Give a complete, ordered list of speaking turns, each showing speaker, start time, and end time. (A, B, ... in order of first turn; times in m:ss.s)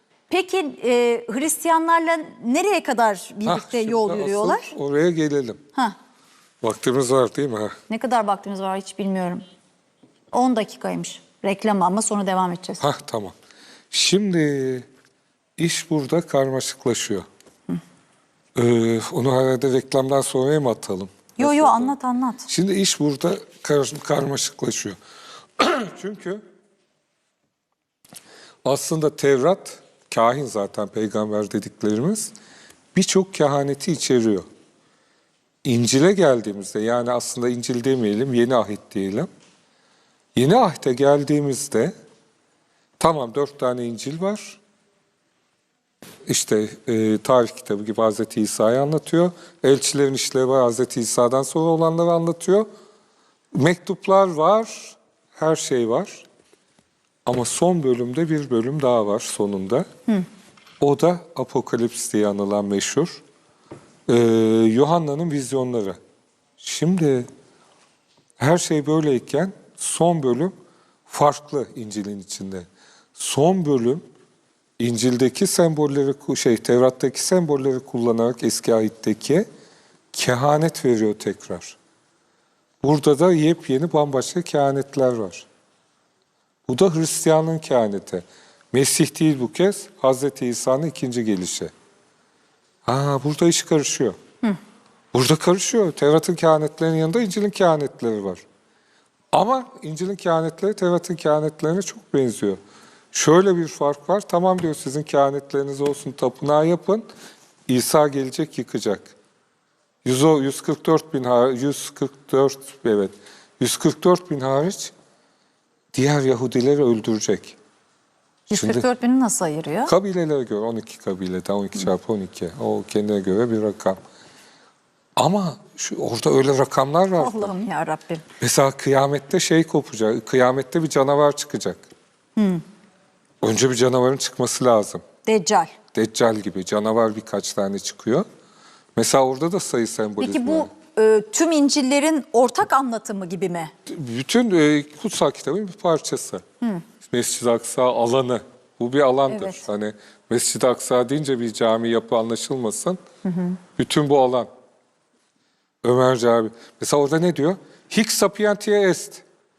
0:00.3-0:04.7 A
0:03.4-0:05.6 B
0:06.6-0:07.8 B
0:07.9-0:09.4 A
0:10.3-0:12.8 A
0:12.8-0:13.3 B
0:13.9-0:14.9 B
0:15.6-0:17.2 B
0:18.5-0:21.9 B
0:21.4-0:22.5 A
0:22.5-0:25.0 B
0:25.6-0:26.4 B
0:28.6-0:32.3 B
0:32.9-0:34.4 B
0:35.6-0:39.3 B
0:40.3-0:41.9 B
0:43.0-0:44.6 B
0:46.3-0:52.7 B
0:53.5-0:56.2 B
0:57.2-0:59.9 B
1:00.8-1:03.2 B
1:04.1-1:06.0 B
1:06.6-1:07.3 B
1:08.4-1:10.5 B
1:11.1-1:14.0 B
1:14.8-1:19.4 B
1:20.1-1:21.8 B
1:22.8-1:25.4 B
1:26.7-1:31.7 B
1:32.8-1:34.2 B
1:35.1-1:38.4 B
1:39.3-1:42.6 B
1:43.1-1:47.0 B
1:47.7-1:49.1 B
1:50.0-1:54.9 B
1:55.9-1:57.6 B
1:58.5-1:59.9 A
1:58.5-1:58.8 B
1:59.8-2:04.0 B
2:05.2-2:07.5 B
2:07.2-2:08.2 A
2:08.4-2:11.8 B
2:12.4-2:12.6 A
2:13.4-2:15.0 B
2:15.2-2:15.7 A
2:15.9-2:18.2 B
2:19.0-2:20.7 B
2:20.2-2:23.7 A
2:23.9-2:26.4 B
2:27.0-2:33.0 B
2:29.3-2:29.6 A
2:33.2-2:33.6 A
2:33.8-2:34.5 B
2:35.8-2:39.2 B